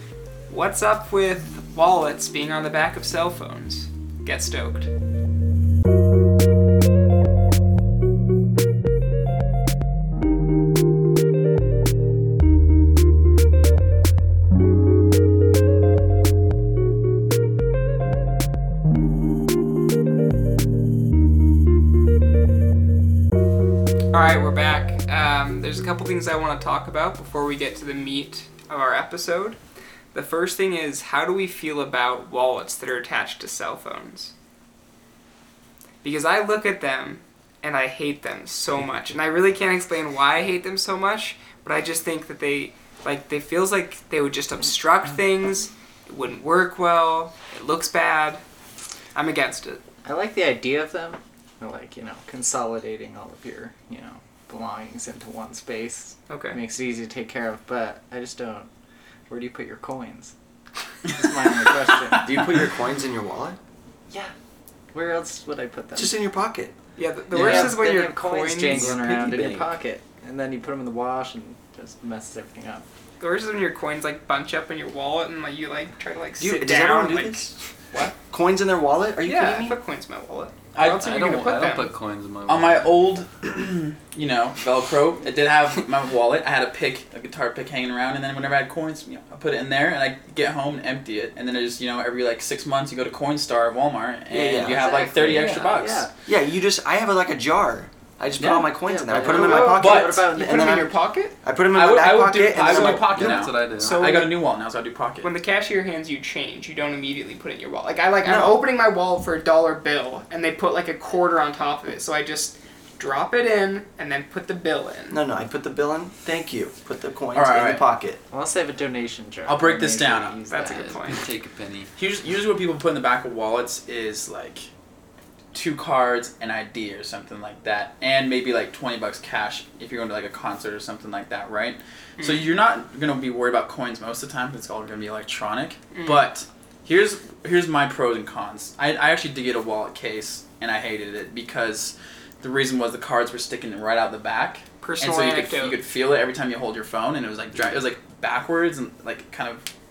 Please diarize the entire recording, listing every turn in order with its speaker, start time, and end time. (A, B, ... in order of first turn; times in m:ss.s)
0:00.5-0:04.9 A
0:24.1-0:29.6 A
0:30.1-0:34.3 A
0:36.0-0:48.4 A
0:49.2-0:49.8 A
0:50.0-0:58.7 B
0:56.3-0:56.6 A
0:59.3-1:00.3 B
1:01.0-1:02.6 B
1:02.2-1:03.6 C
1:04.9-1:06.2 B
1:06.0-1:06.7 C
1:07.0-1:08.9 A
1:07.3-1:12.8 B
1:07.3-1:07.8 C
1:08.7-1:09.7 C
1:08.8-1:09.6 D
1:13.2-1:17.5 A
1:16.4-1:17.6 C
1:18.2-1:19.8 C
1:19.2-1:21.9 A
1:20.8-1:21.9 E
1:20.8-1:23.0 D
1:22.5-1:36.1 E
1:34.3-1:35.6 C
1:34.6-1:36.1 B
1:34.8-1:35.5 A
1:36.3-1:43.5 C
1:38.4-1:38.7 E
1:38.8-1:40.7 B
1:39.2-1:40.2 E
1:39.2-1:41.4 A
1:41.7-1:45.3 E
1:42.6-1:44.4 A
1:43.1-1:44.0 D
1:45.2-1:55.2 A
1:48.2-1:48.6 C
1:55.1-1:58.2 C
1:57.3-1:57.8 E
1:58.3-2:01.0 B
1:59.5-2:00.4 E
2:00.5-2:01.2 A
2:00.6-2:01.9 D
2:02.0-2:04.7 E
2:05.5-2:29.7 E
2:12.2-2:12.4 A
2:15.9-2:16.2 A
2:24.8-2:25.8 A